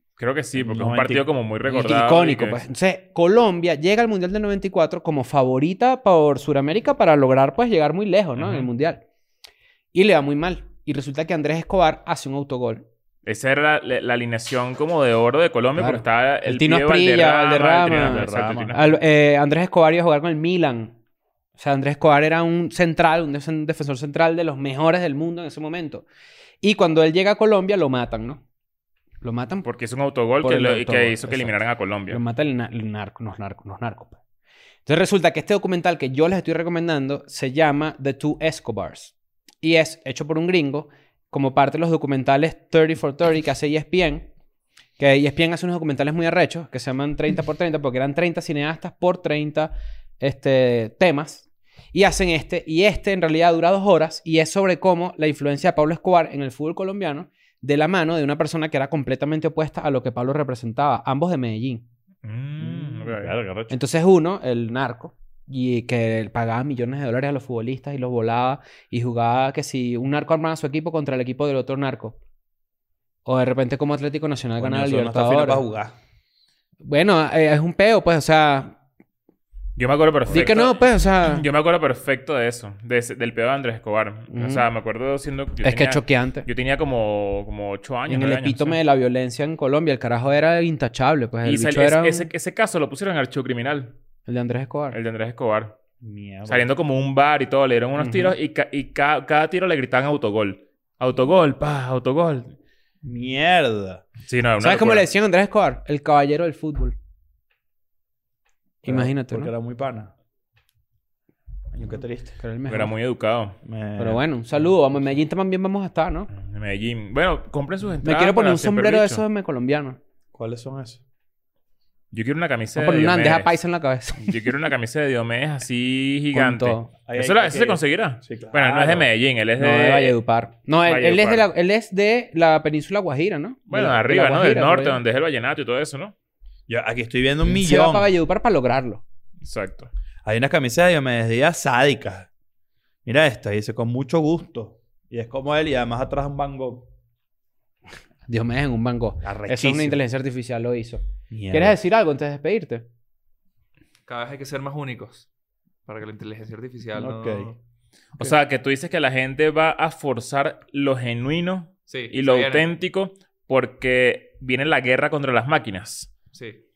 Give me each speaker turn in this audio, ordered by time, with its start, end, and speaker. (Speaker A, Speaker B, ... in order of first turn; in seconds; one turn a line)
Speaker A: 0.2-2.6
Speaker B: 0.6-1.3
Speaker C: 1.6-9.0
Speaker A: 8.4-8.7
Speaker C: 9.9-12.9
Speaker A: 13.2-18.9
Speaker C: 15.8-20.9
Speaker B: 17.9-18.8
Speaker C: 21.6-26.0
Speaker C: 26.6-28.4
Speaker C: 29.2-29.7
Speaker A: 29.6-32.2
Speaker C: 30.4-31.6
Speaker C: 32.1-34.2
Speaker C: 34.9-44.3
Speaker C: 45.0-61.8
Speaker A: 62.2-63.3
Speaker B: 62.6-63.8
Speaker C: 63.7-72.2
Speaker C: 73.2-75.6
Speaker B: 74.6-76.0
Speaker C: 76.8-78.8
Speaker A: 79.8-88.8
Speaker C: 80.3-81.4
Speaker C: 84.3-84.6
Speaker C: 85.6-86.5
Speaker C: 88.1-92.3
Speaker A: 91.4-93.9
Speaker C: 94.3-95.0
Speaker A: 94.9-95.8
Speaker B: 96.0-96.7
Speaker A: 96.5-102.5
Speaker C: 98.0-98.3
Speaker B: 103.0-104.0
Speaker A: 104.2-105.0
Speaker C: 104.6-107.0
Speaker C: 108.8-109.5
Speaker B: 108.8-110.1
Speaker B: 111.7-112.4
Speaker C: 112.4-112.9
Speaker A: 112.7-113.6
Speaker B: 113.6-114.7
Speaker C: 114.0-116.3
Speaker A: 116.3-119.2
Speaker C: 118.0-120.0
Speaker B: 120.3-121.0
Speaker A: 122.1-123.5
Speaker C: 122.8-124.5
Speaker A: 124.2-130.2
Speaker C: 126.3-126.9
Speaker B: 127.0-129.1
Speaker C: 129.6-135.0
Speaker A: 130.8-131.4
Speaker A: 133.7-136.1
Speaker B: 136.7-138.1
Speaker C: 137.4-139.0
Speaker A: 139.4-139.9
Speaker B: 140.2-142.3
Speaker B: 143.0-146.9
Speaker C: 148.3-152.8
Speaker B: 149.2-150.0
Speaker B: 151.3-151.8
Speaker D: 154.1-155.3
Speaker D: 155.8-157.6
Speaker B: 156.9-157.5
Speaker A: 158.2-166.1
Speaker D: 161.9-162.7
Speaker D: 166.3-166.6